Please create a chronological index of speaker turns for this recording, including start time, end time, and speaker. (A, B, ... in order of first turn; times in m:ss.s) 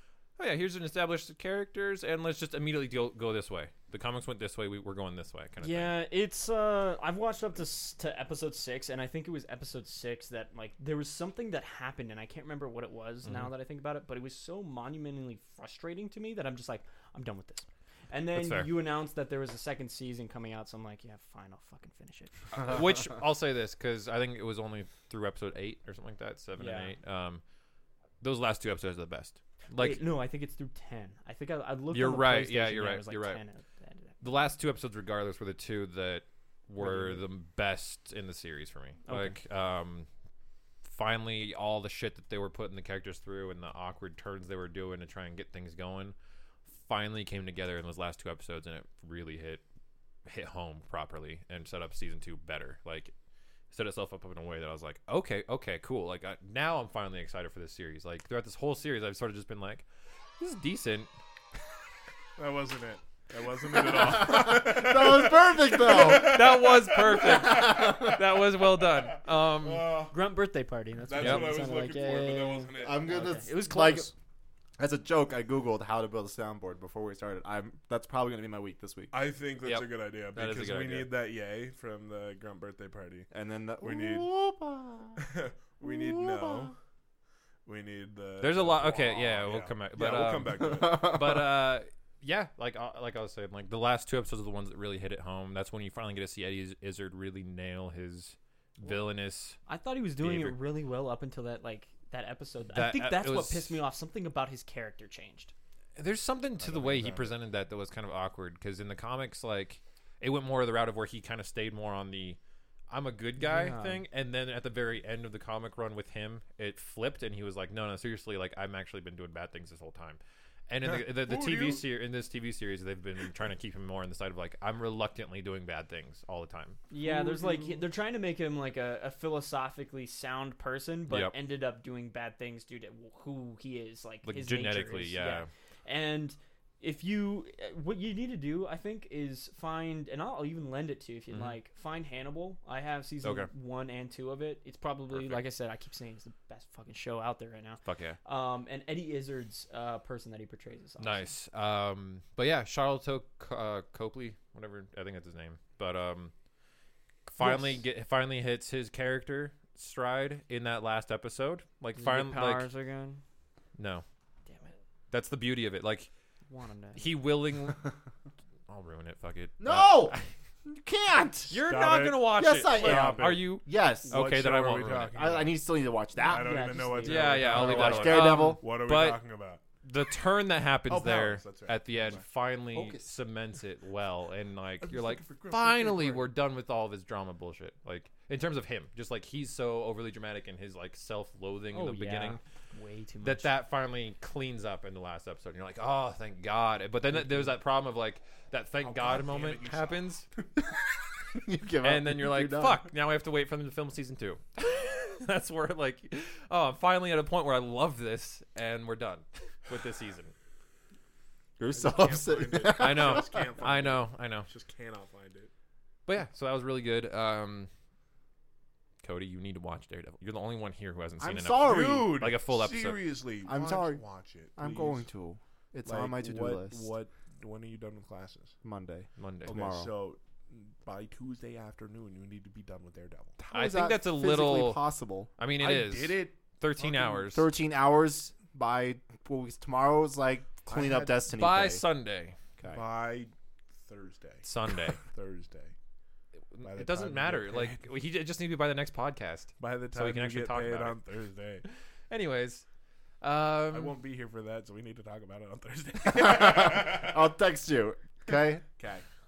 0:00.4-0:06.0 A
0:05.6-0:22.4 B
0:13.2-0:13.5 A
0:18.3-0:18.7 A
0:22.5-0:27.4 A
0:26.6-0:26.9 B
0:28.2-0:30.1 A
0:29.8-0:34.2 B
0:31.9-0:33.4 A
0:34.2-0:40.1 A
0:36.8-0:37.2 B
0:39.1-0:39.4 B
0:40.8-0:46.2 A
0:46.8-0:49.6 A
0:50.3-0:53.1 A
0:53.7-0:59.8 A
1:00.4-1:01.1 A
1:02.4-1:10.2 C
1:03.7-1:06.6 D
1:05.9-1:09.9 A
1:07.2-1:08.2 D
1:10.1-1:14.1 B
1:11.1-1:13.3 C
1:11.2-1:11.5 A
1:12.8-1:14.1 D
1:14.8-1:19.1 D
1:19.1-1:23.3 C
1:19.6-1:21.1 A
1:23.3-1:25.2 D
1:23.8-1:24.3 C
1:25.2-1:26.8 C
1:25.8-1:26.7 D
1:27.6-1:31.4 C
1:28.4-1:39.6 A
1:30.7-1:31.4 D
1:39.7-1:45.5 B
1:40.2-1:40.6 A
1:42.7-1:43.8 A
1:46.0-1:52.4 A
1:46.6-1:47.4 C
1:52.9-2:06.8 A
1:53.4-1:54.0 B
2:00.8-2:01.8 C
2:06.9-2:31.3 B
2:07.3-2:07.6 C
2:11.1-2:11.3 A
2:14.2-2:15.5 A
2:21.3-2:21.6 A
2:23.2-2:23.5 A
2:25.1-2:25.4 A
2:27.8-2:28.2 A
2:31.0-2:36.3 A
2:37.3-2:42.7 A
2:37.4-2:37.8 B
2:42.0-2:43.2 B
2:43.8-2:44.0 A
2:45.1-2:46.1 A
2:46.5-2:47.1 B
2:47.0-2:47.9 A
2:48.7-2:50.3 A
2:49.6-2:51.6 D
2:51.5-2:55.3 A
2:51.6-2:55.5 C
2:52.3-2:54.2 D
2:55.1-2:56.8 D
2:56.2-2:59.6 C
2:56.2-2:57.6 B
2:57.0-2:59.2 A
2:57.5-2:58.6 D
2:59.8-3:12.4 A
3:00.9-3:02.2 C
3:02.7-3:03.1 D
3:04.8-3:06.3 C
3:11.7-3:13.5 B
3:13.2-3:20.3 A
3:18.8-3:20.1 C
3:21.3-3:22.9 D
3:21.8-3:30.3 A
3:31.6-3:33.4 D
3:31.7-3:35.5 C
3:32.8-3:34.5 A
3:36.1-3:37.7 A
3:39.0-3:43.0 A
3:41.2-3:42.3 D
3:41.6-3:45.1 C
3:43.4-3:44.0 D
3:44.6-3:46.9 D
3:45.8-3:48.6 C
3:48.6-3:49.9 D
3:49.2-3:49.5 A
3:49.5-3:53.4 C
3:53.4-3:55.3 D
3:53.5-3:54.8 A
3:55.4-3:57.5 A
3:55.6-3:57.3 C
3:57.3-4:01.8 D
4:00.7-4:02.4 A
4:02.6-4:03.3 C
4:03.8-4:04.5 C
4:04.4-4:05.0 A
4:05.0-4:05.7 C
4:06.5-4:11.0 A
4:06.6-4:07.8 C
4:09.6-4:11.6 C
4:12.1-4:12.6 A
4:13.2-4:14.0 A
4:13.7-4:17.2 C
4:16.1-4:18.6 D
4:18.8-4:19.1 C